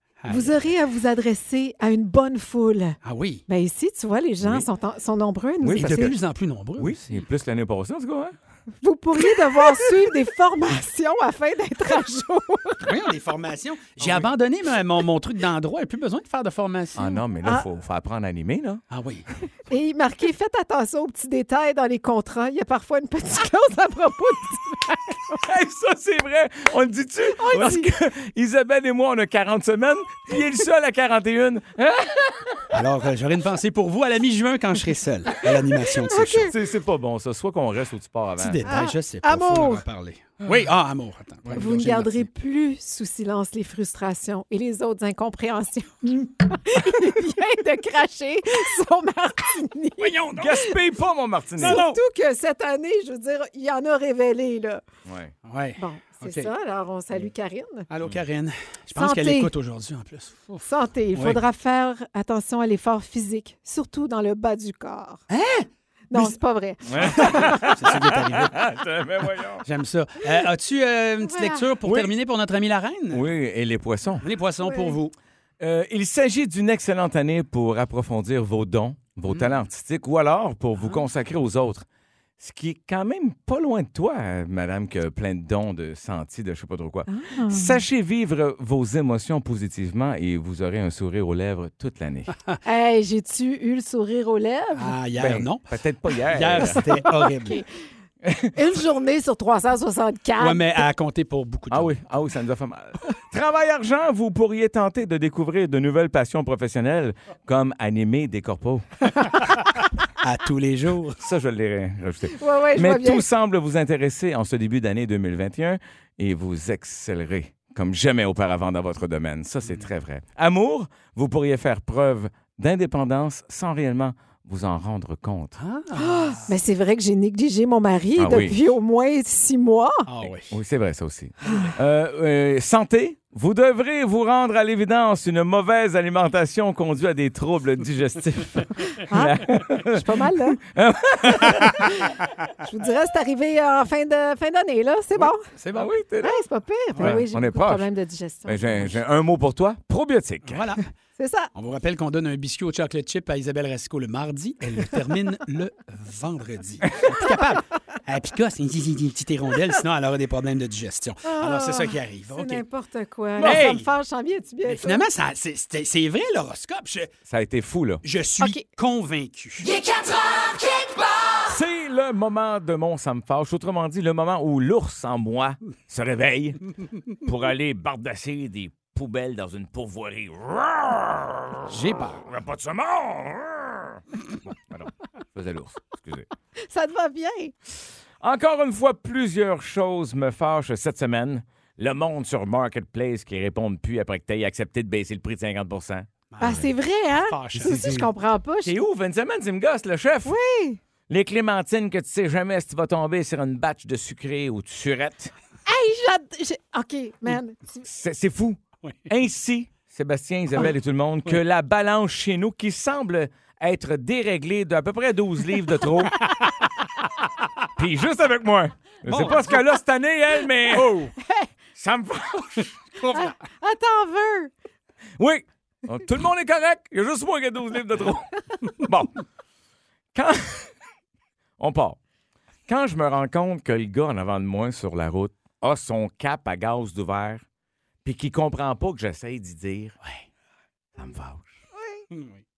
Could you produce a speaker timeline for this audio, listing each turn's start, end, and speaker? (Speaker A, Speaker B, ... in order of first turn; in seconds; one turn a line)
Speaker A: 0.2-0.6
Speaker B: 0.3-6.1
Speaker A: 3.0-3.5
Speaker C: 4.4-4.7
Speaker C: 5.6-6.2
Speaker A: 5.8-7.0
Speaker C: 6.8-8.3
Speaker B: 8.8-12.9
Speaker A: 12.8-17.1
Speaker C: 14.0-14.3
Speaker C: 17.0-18.8
Speaker B: 17.0-17.6
Speaker A: 18.9-19.3
Speaker B: 19.7-25.4
Speaker C: 25.5-32.3
Speaker B: 27.4-27.9
Speaker A: 32.7-36.5
Speaker B: 36.1-36.5
Speaker C: 36.4-38.6
Speaker A: 38.4-42.3
Speaker B: 38.6-39.8
Speaker B: 41.5-50.6
Speaker A: 50.0-50.6
Speaker C: 50.4-51.8
Speaker A: 51.6-52.0
Speaker B: 51.6-54.8
Speaker C: 55.0-55.3
Speaker A: 55.5-56.5
Speaker B: 55.8-57.9
Speaker A: 57.9-61.4
Speaker B: 59.0-59.5
Speaker B: 60.6-65.2
Speaker A: 65.3-66.4
Speaker B: 66.1-67.6
Speaker C: 66.9-69.6
Speaker A: 67.0-68.6
Speaker A: 69.6-73.2
Speaker B: 71.2-71.7
Speaker C: 71.8-72.1
Speaker C: 73.1-74.3
Speaker A: 74.2-75.1
Speaker B: 74.7-75.0
Speaker C: 75.6-81.8
Speaker C: 82.4-92.4
Speaker B: 87.1-87.8
Speaker B: 92.6-95.0
Speaker A: 94.8-95.7
Speaker C: 95.2-96.8
Speaker A: 96.3-97.6
Speaker B: 96.5-97.6
Speaker B: 98.5-100.8
Speaker A: 100.4-102.0
Speaker C: 101.7-108.9
Speaker A: 110.2-111.2
Speaker C: 111.2-125.6
Speaker B: 112.3-113.2
Speaker A: 125.6-126.5
Speaker B: 126.0-130.1
Speaker C: 128.2-128.6
Speaker A: 130.1-130.5
Speaker C: 130.2-142.1
Speaker B: 139.1-140.6
Speaker B: 141.9-145.4
Speaker A: 145.5-145.9
Speaker C: 145.7-146.4
Speaker B: 146.2-149.0
Speaker A: 146.9-147.2
Speaker C: 147.0-147.9
Speaker C: 148.5-150.8
Speaker A: 150.4-150.8
Speaker B: 151.2-151.5
Speaker A: 151.5-162.6
Speaker B: 161.2-165.1
Speaker A: 163.4-163.9
Speaker C: 163.4-163.7
Speaker A: 164.7-167.1
Speaker C: 167.3-168.0
Speaker A: 168.0-169.8
Speaker B: 168.4-168.7
Speaker C: 171.4-184.0
Speaker A: 181.7-182.3
Speaker C: 184.7-186.3
Speaker B: 186.6-187.5
Speaker C: 188.2-196.6
Speaker A: 196.3-198.0
Speaker B: 196.4-198.7
Speaker C: 197.5-198.1
Speaker C: 198.6-200.3
Speaker B: 200.2-200.8
Speaker C: 201.1-205.3
Speaker B: 205.7-207.8
Speaker C: 207.8-216.7
Speaker A: 208.8-209.1
Speaker C: 217.8-221.1
Speaker A: 219.1-219.6
Speaker C: 221.8-222.9
Speaker A: 223.0-223.3
Speaker B: 223.0-224.5
Speaker C: 225.2-229.2
Speaker C: 230.1-230.7
Speaker C: 231.6-232.0
Speaker C: 232.7-237.4
Speaker C: 238.1-240.0
Speaker C: 241.0-241.6
Speaker A: 242.1-242.4